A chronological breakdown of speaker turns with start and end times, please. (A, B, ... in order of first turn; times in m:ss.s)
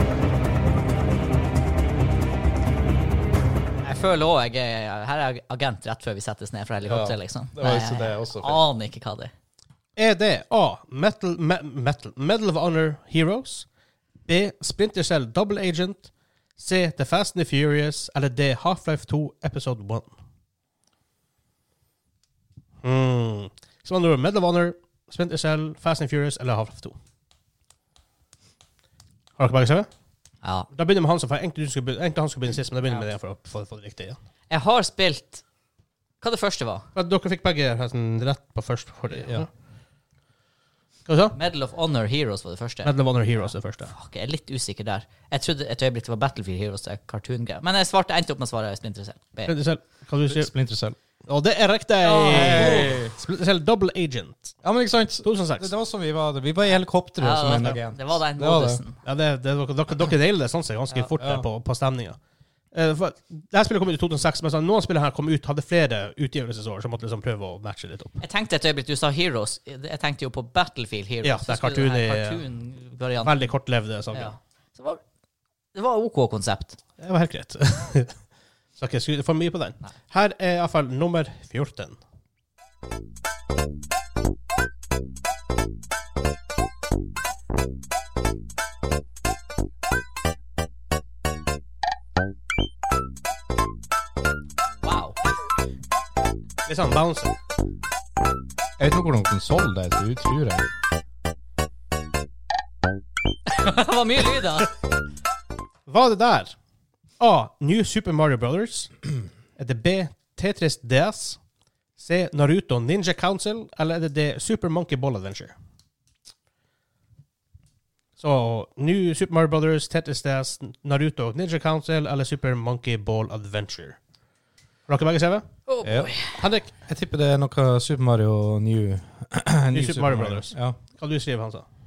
0:03.8-0:09.3 A
0:06.9-0:08.6 B
0:10.0-0:13.7 C
0:14.3-0:20.1 C
0:22.8-0:27.0 C
0:29.4-0:29.9 C
0:30.4-0:30.7 A
0:30.7-0:34.2 C
0:34.5-0:35.4 A
0:36.2-0:36.9 A
0:37.0-0:39.5 C
0:41.1-0:41.4 C
0:41.4-0:49.5 A
0:42.8-0:43.9 C
0:49.5-0:50.5 C
0:50.3-0:51.0 B
0:51.3-0:54.6 C
0:52.0-0:53.0 A
0:52.3-0:53.2 B
0:54.6-0:58.8 B
0:55.2-0:55.7 C
0:57.2-0:59.0 A
0:59.0-1:02.2 C
1:01.2-1:01.5 B
1:02.7-1:08.2 C
1:08.2-1:13.5 A
1:11.2-1:12.4 C
1:13.2-1:14.3 C
1:14.1-1:15.0 A
1:15.8-1:16.8 A
1:17.0-1:18.1 C
1:18.8-1:22.0 C
1:34.8-1:35.2 A
1:36.7-1:37.4 C
1:38.8-1:40.7 B
1:43.5-1:44.7 A
1:45.9-1:46.5 C
1:47.2-1:48.9 C
1:49.6-1:51.4 C
1:52.0-1:55.5 C
1:58.2-2:04.0 C
2:04.9-2:05.4 C
2:05.7-2:06.4 A
2:05.8-2:06.1 B
2:06.4-2:06.7 C
2:06.8-2:10.8 B
2:09.7-2:11.6 C